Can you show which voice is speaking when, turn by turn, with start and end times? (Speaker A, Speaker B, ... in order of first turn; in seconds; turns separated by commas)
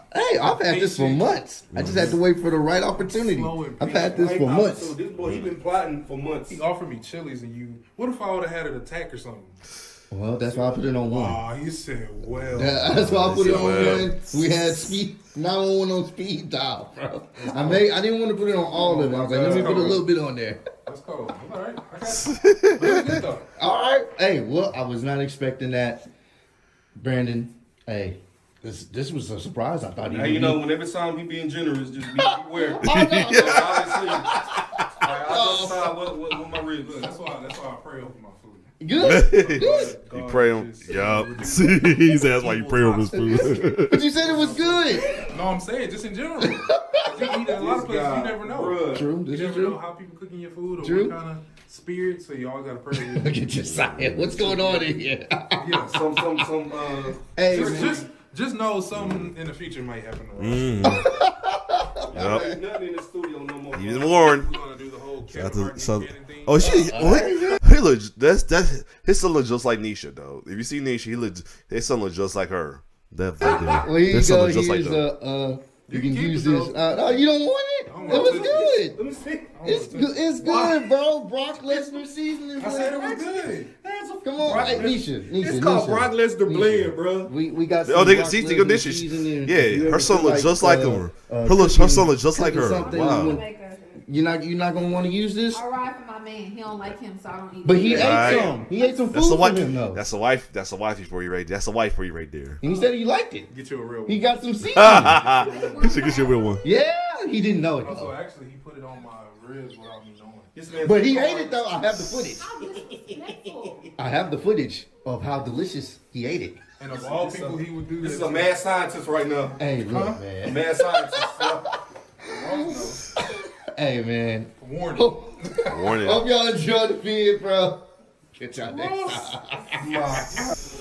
Speaker A: 0.1-5.0, Speaker B: 0.4-2.1, Speaker C: 1.7-2.1, Speaker B: 2.9-4.3, Speaker D: 4.1-6.6, Speaker C: 5.2-5.5, Speaker B: 6.5-9.6, Speaker A: 10.1-11.4, Speaker B: 10.4-14.1, Speaker A: 12.5-20.6, Speaker C: 12.9-14.6, Speaker B: 17.4-17.8, Speaker B: 18.7-20.0, Speaker B: 20.8-23.5, Speaker C: 22.1-22.9, Speaker A: 23.6-26.0, Speaker A: 26.9-30.6, Speaker D: 30.1-34.4, Speaker A: 32.2-33.7, Speaker C: 32.8-34.2, Speaker D: 35.0-37.1, Speaker A: 35.2-35.9, Speaker B: 36.8-53.3, Speaker A: 38.8-39.9, Speaker C: 39.0-44.0, Speaker A: 43.1-45.1, Speaker A: 46.4-47.3, Speaker D: 47.5-49.1, Speaker A: 48.9-49.8, Speaker A: 50.8-51.1, Speaker A: 52.9-55.5, Speaker C: 53.6-54.3, Speaker B: 55.5-56.1, Speaker D: 55.8-58.1, Speaker A: 57.2-58.0, Speaker B: 57.5-61.0, Speaker C: 58.9-59.3, Speaker C: 60.4-61.1, Speaker A: 60.8-62.6, Speaker D: 62.1-64.1, Speaker C: 62.1-62.5, Speaker C: 63.7-64.5, Speaker B: 64.0-67.0, Speaker C: 65.3-75.0, Speaker A: 66.6-67.6, Speaker D: 73.4-73.8, Speaker A: 73.7-79.0, Speaker B: 75.9-77.3, Speaker B: 77.9-78.7, Speaker D: 78.0-79.5, Speaker B: 79.5-80.8, Speaker A: 79.6-83.1, Speaker D: 80.5-80.7, Speaker B: 82.6-83.7, Speaker D: 82.9-87.3, Speaker A: 84.2-93.5, Speaker C: 87.8-93.4, Speaker E: 92.4-94.0, Speaker A: 94.0-95.6, Speaker E: 95.5-99.0, Speaker A: 97.6-100.0, Speaker C: 97.8-98.5, Speaker B: 98.3-98.6, Speaker C: 99.1-102.6, Speaker A: 102.6-103.5, Speaker B: 102.6-102.9, Speaker B: 103.5-104.3, Speaker A: 104.1-105.2, Speaker C: 104.7-106.6, Speaker B: 105.0-106.0, Speaker E: 105.5-106.6, Speaker A: 106.6-108.1, Speaker B: 107.8-110.5, Speaker D: 110.5-111.5, Speaker A: 110.8-112.5, Speaker E: 112.4-114.1, Speaker A: 114.0-116.6, Speaker B: 116.8-118.5, Speaker D: 116.9-119.6, Speaker A: 119.6-121.8, Speaker B: 119.9-120.3, Speaker D: 120.4-121.6, Speaker B: 122.2-123.1, Speaker A: 123.1-127.8, Speaker B: 124.6-125.3, Speaker C: 125.7-126.3, Speaker A: 128.3-130.1, Speaker B: 128.6-129.3, Speaker D: 129.8-130.5